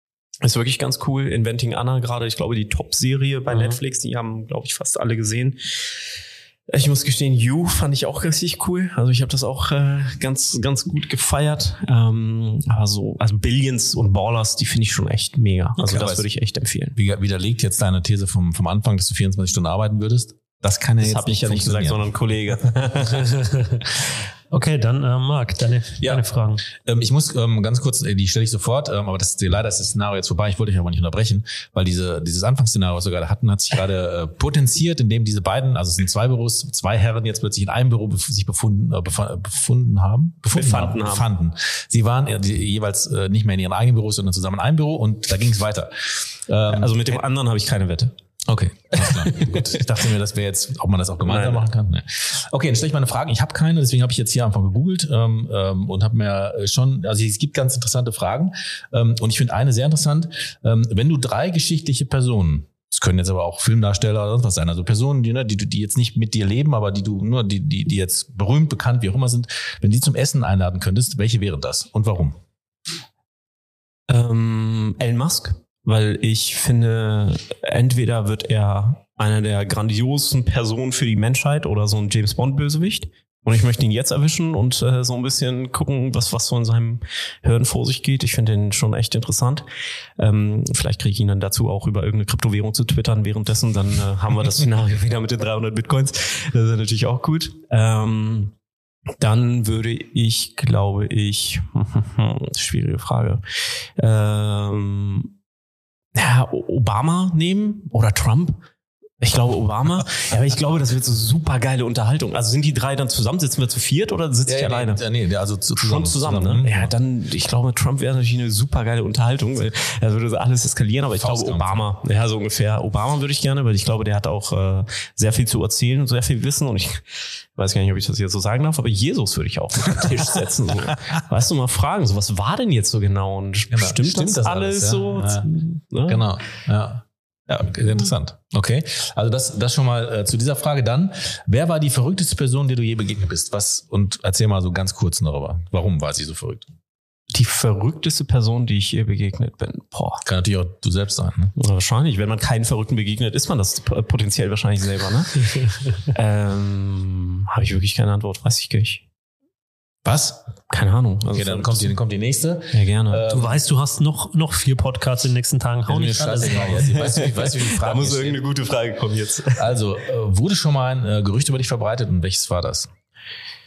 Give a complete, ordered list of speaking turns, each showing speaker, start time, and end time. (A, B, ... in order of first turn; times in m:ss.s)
0:00.4-0:06.0 A
0:03.5-0:03.8 B
0:06.7-0:17.0 A
0:15.8-0:16.3 C
0:16.9-0:22.1 C
0:21.0-0:23.3 A
0:23.1-0:23.8 B
0:24.5-0:26.6 B
0:26.0-0:46.9 C
0:40.5-0:41.3 A
0:46.7-0:48.1 A
0:48.4-1:12.4 C
0:49.0-0:49.8 A
0:51.2-0:51.7 A
1:14.1-1:29.6 A
1:30.2-1:38.5 A
1:39.2-1:43.4 A
1:44.0-1:45.3 A
1:46.1-1:48.6 A
1:49.2-1:55.0 A
1:54.4-1:56.9 C
1:55.8-2:07.0 A
2:01.2-2:01.8 C
2:07.6-2:16.3 A
2:13.7-2:15.5 C
2:16.1-2:26.7 C
2:27.3-2:30.2 A
2:30.2-2:31.5 C
2:31.6-2:39.0 A
2:40.0-2:40.4 C
2:40.7-2:41.9 A
2:41.3-2:43.6 C
2:42.7-2:43.2 A
2:43.3-2:46.9 B
2:45.9-2:48.4 C
2:46.7-2:49.7 A
2:49.5-2:52.9 C